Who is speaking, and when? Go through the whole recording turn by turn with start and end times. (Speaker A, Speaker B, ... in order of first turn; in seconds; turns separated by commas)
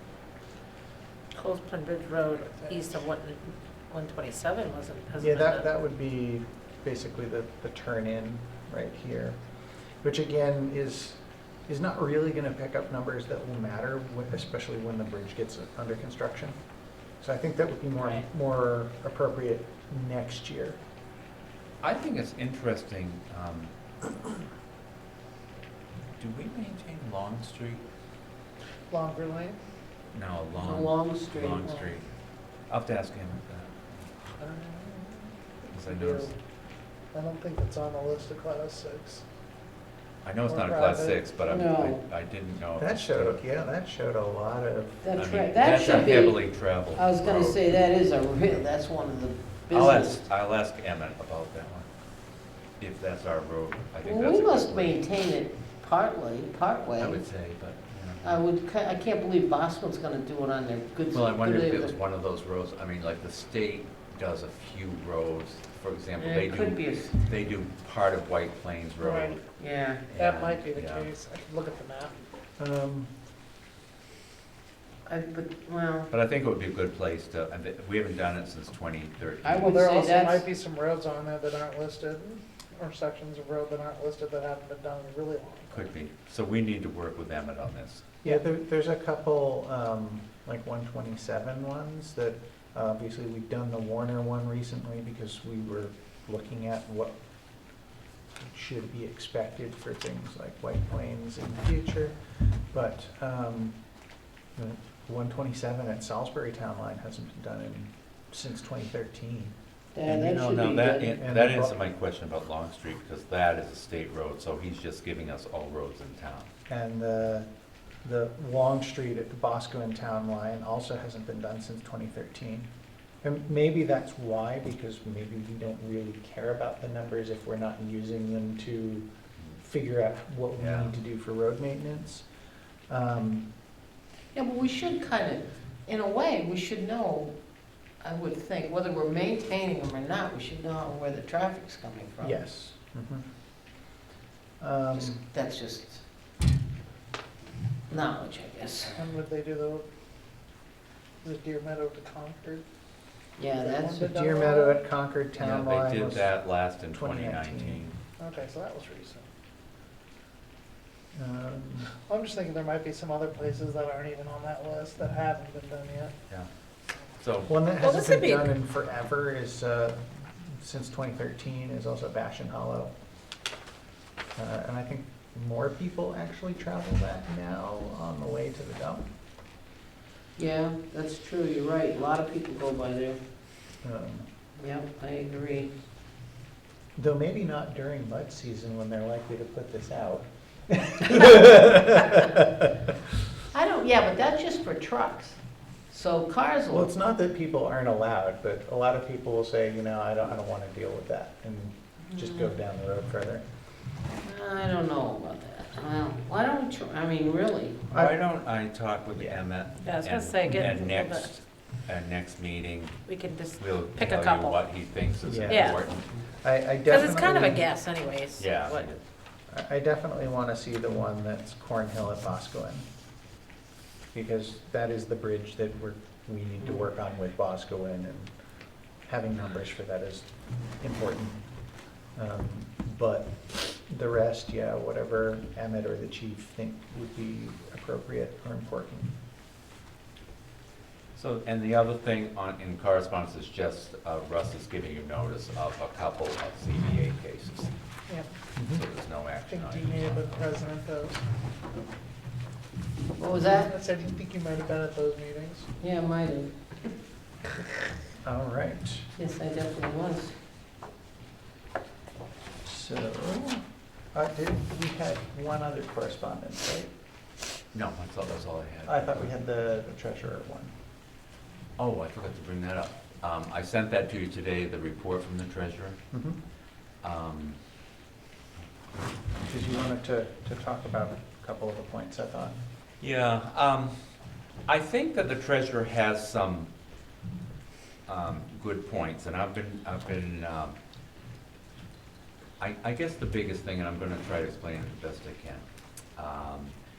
Speaker A: 1.3-5.7, Speaker B: 5.2-9.4, Speaker B: 10.0-16.6, Speaker B: 17.2-20.8, Speaker C: 21.8-23.7, Speaker C: 26.2-27.8, Speaker D: 28.9-29.6, Speaker C: 30.1-32.0, Speaker E: 30.6-31.6, Speaker C: 32.7-34.1, Speaker D: 34.4-36.3, Speaker C: 35.7-36.3, Speaker D: 37.1-39.2, Speaker C: 40.2-43.4, Speaker D: 40.5-41.3, Speaker E: 41.5-42.0, Speaker B: 42.8-45.1, Speaker E: 45.0-50.3, Speaker C: 45.2-47.6, Speaker C: 49.7-51.9, Speaker C: 52.8-55.0, Speaker E: 54.0-57.2, Speaker C: 57.0-58.4, Speaker E: 58.2-62.0, Speaker C: 61.1-69.5, Speaker E: 66.2-67.3, Speaker D: 69.0-69.4, Speaker E: 69.6-70.1, Speaker C: 70.1-71.1, Speaker D: 70.1-72.3, Speaker B: 72.6-73.1, Speaker E: 75.1-76.1, Speaker C: 76.1-79.8, Speaker E: 79.4-80.4, Speaker D: 79.6-85.9, Speaker C: 85.7-88.1, Speaker B: 88.2-97.2, Speaker B: 98.4-102.2, Speaker B: 102.7-103.8, Speaker B: 104.6-111.8, Speaker E: 110.0-111.2, Speaker C: 110.5-116.5, Speaker B: 116.7-117.5, Speaker B: 118.0-122.7, Speaker B: 123.2-129.1, Speaker B: 129.6-132.2, Speaker C: 130.6-130.9, Speaker B: 132.9-133.5, Speaker E: 134.3-137.3, Speaker E: 138.0-142.4, Speaker B: 142.2-143.2, Speaker B: 144.6-145.2, Speaker E: 144.9-146.0, Speaker E: 147.9-149.0, Speaker D: 148.9-149.9, Speaker D: 151.2-152.7, Speaker E: 153.4-154.1, Speaker D: 153.5-154.8, Speaker B: 153.9-156.3, Speaker C: 155.4-158.0, Speaker B: 156.9-157.8, Speaker D: 158.2-159.3, Speaker B: 161.2-161.9, Speaker D: 162.1-166.1, Speaker C: 167.2-167.7, Speaker B: 167.5-172.9, Speaker A: 167.7-168.5, Speaker B: 174.4-179.1, Speaker E: 180.4-183.2, Speaker B: 183.8-184.3, Speaker E: 184.6-185.7, Speaker B: 187.0-192.7, Speaker E: 193.5-196.9, Speaker B: 196.7-203.4, Speaker E: 202.1-202.6, Speaker E: 204.2-207.8, Speaker B: 207.9-208.2, Speaker C: 207.9-213.1, Speaker B: 209.2-209.4, Speaker A: 209.8-211.3, Speaker B: 210.5-210.8, Speaker A: 213.1-214.6, Speaker C: 213.6-216.1, Speaker B: 215.2-215.8, Speaker A: 215.5-215.8, Speaker B: 216.4-217.7, Speaker A: 216.9-218.9, Speaker C: 218.4-219.0, Speaker B: 219.5-222.9, Speaker B: 224.1-228.3, Speaker E: 226.6-226.9, Speaker B: 229.1-231.4, Speaker B: 232.2-239.1, Speaker C: 241.2-247.7, Speaker B: 248.6-248.8, Speaker C: 248.7-250.6, Speaker D: 249.5-251.2, Speaker E: 253.2-253.7, Speaker D: 253.6-255.7, Speaker E: 255.8-256.5, Speaker B: 258.2-259.1, Speaker E: 259.2-260.3, Speaker B: 262.6-266.9, Speaker C: 267.7-269.3, Speaker B: 268.9-270.7, Speaker C: 271.8-276.0, Speaker B: 276.1-276.4, Speaker C: 277.0-277.6, Speaker B: 279.4-282.6, Speaker C: 283.0-283.9, Speaker C: 284.7-286.7, Speaker C: 288.1-290.8, Speaker C: 292.6-296.8